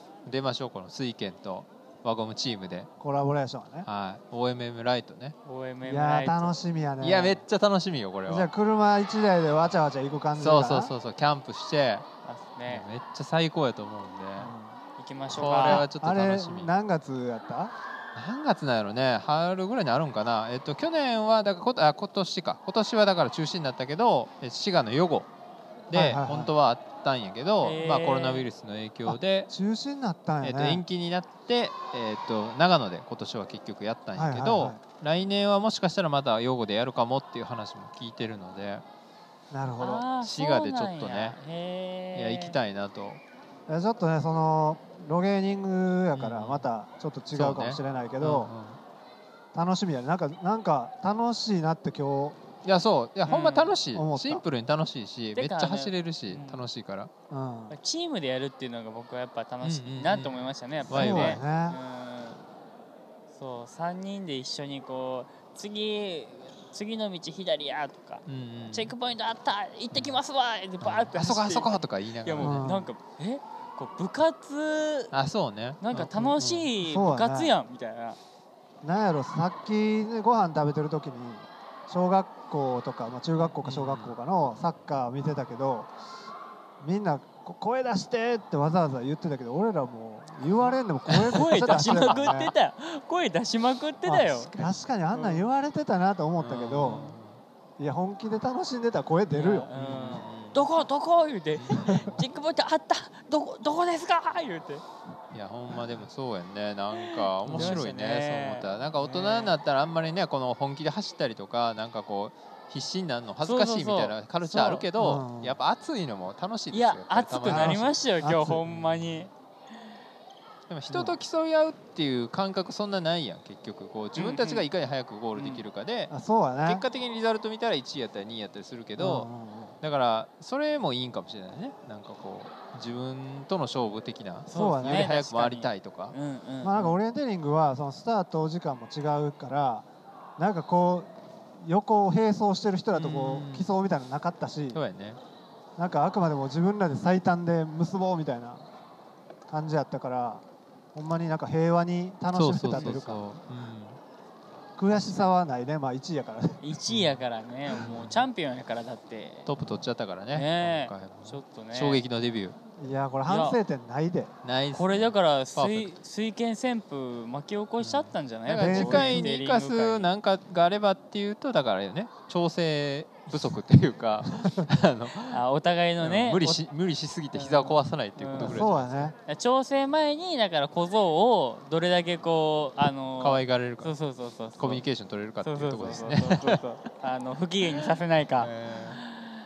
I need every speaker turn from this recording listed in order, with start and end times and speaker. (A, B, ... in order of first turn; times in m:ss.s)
0:00.2-0:02.9 A
0:03.0-0:03.9 B
0:03.8-0:05.4 A
0:05.4-0:06.6 C
0:05.8-0:07.4 B
0:07.0-0:08.5 A
0:08.3-0:10.9 B
0:10.4-0:12.1 A
0:12.2-0:12.8 C
0:12.7-0:14.5 A
0:14.4-0:14.8 B
0:15.0-0:15.8 C
0:15.3-0:16.7 A
0:15.6-0:17.7 B
0:18.1-0:25.3 A
0:25.9-0:29.5 A
0:25.9-0:26.5 B
0:27.6-0:28.5 C
0:29.1-0:30.8 B
0:30.4-0:38.8 A
0:34.1-0:34.8 B
0:39.5-0:40.0 B
0:39.8-0:42.6 C
0:40.2-0:41.4 A
0:42.1-0:43.2 A
0:43.7-0:48.5 B
0:46.1-0:46.7 A
0:47.3-0:48.8 A
0:49.5-0:52.4 B
0:52.6-0:57.1 A
0:53.2-0:53.7 C
0:53.9-0:54.4 B
0:55.3-0:56.6 C
0:57.3-0:57.7 B
0:57.7-1:02.4 C
0:59.6-1:01.4 A
1:00.9-1:01.8 B
1:03.3-1:15.1 C
1:08.2-1:08.9 A
1:10.8-1:12.7 A
1:12.4-1:12.9 B
1:15.1-1:16.7 A
1:15.8-1:18.2 C
1:16.8-1:17.5 B
1:18.8-1:25.9 B
1:23.6-1:24.1 A
1:26.8-1:32.5 B
1:31.1-1:34.5 C
1:31.3-1:32.4 A
1:34.1-1:37.0 B
1:34.1-1:34.7 A
1:35.1-1:35.4 C
1:36.4-1:37.4 A
1:36.8-1:37.1 C
1:37.8-1:39.7 B
1:39.3-1:44.8 C
1:39.7-1:40.7 A
1:41.6-1:42.2 A
1:45.3-1:57.9 A
1:46.9-1:49.6 C
1:47.5-1:47.8 B
1:53.4-1:54.9 C
1:55.0-1:55.6 B
1:56.7-1:59.3 C
1:57.4-1:58.6 B
1:58.7-1:59.2 A
2:00.7-2:06.1 A
2:00.9-2:01.2 B
2:04.1-2:04.6 C
2:06.1-2:06.8 B
2:06.6-2:09.3 A
2:09.0-2:09.7 B
2:09.8-2:16.1 A
2:14.5-2:17.0 C
2:14.5-2:15.1 B
2:16.6-2:19.9 B
2:20.4-2:24.8 B
2:22.9-2:23.7 A
2:24.7-2:25.2 A
2:25.8-2:28.6 B
2:29.5-2:30.4 B
2:30.9-2:33.2 B
2:32.3-2:34.0 A
2:34.8-2:36.6 B
2:36.6-2:39.5 C
2:36.9-2:37.2 A
2:37.8-2:38.2 A
2:39.4-2:42.6 A
2:40.3-2:42.0 C
2:42.8-2:44.3 B
2:43.3-2:43.6 C
2:44.4-2:45.9 A
2:44.7-2:50.1 C
2:47.8-2:55.4 A
2:48.6-2:49.3 B
2:54.4-2:54.7 B
2:55.3-2:56.6 C
2:56.0-2:59.1 A
2:57.3-2:58.7 C
2:58.4-2:59.1 B
2:59.2-3:04.8 C
3:03.2-3:04.0 A
3:04.6-3:06.6 A
3:05.4-3:08.5 C
3:08.4-3:09.0 A
3:09.0-3:09.3 C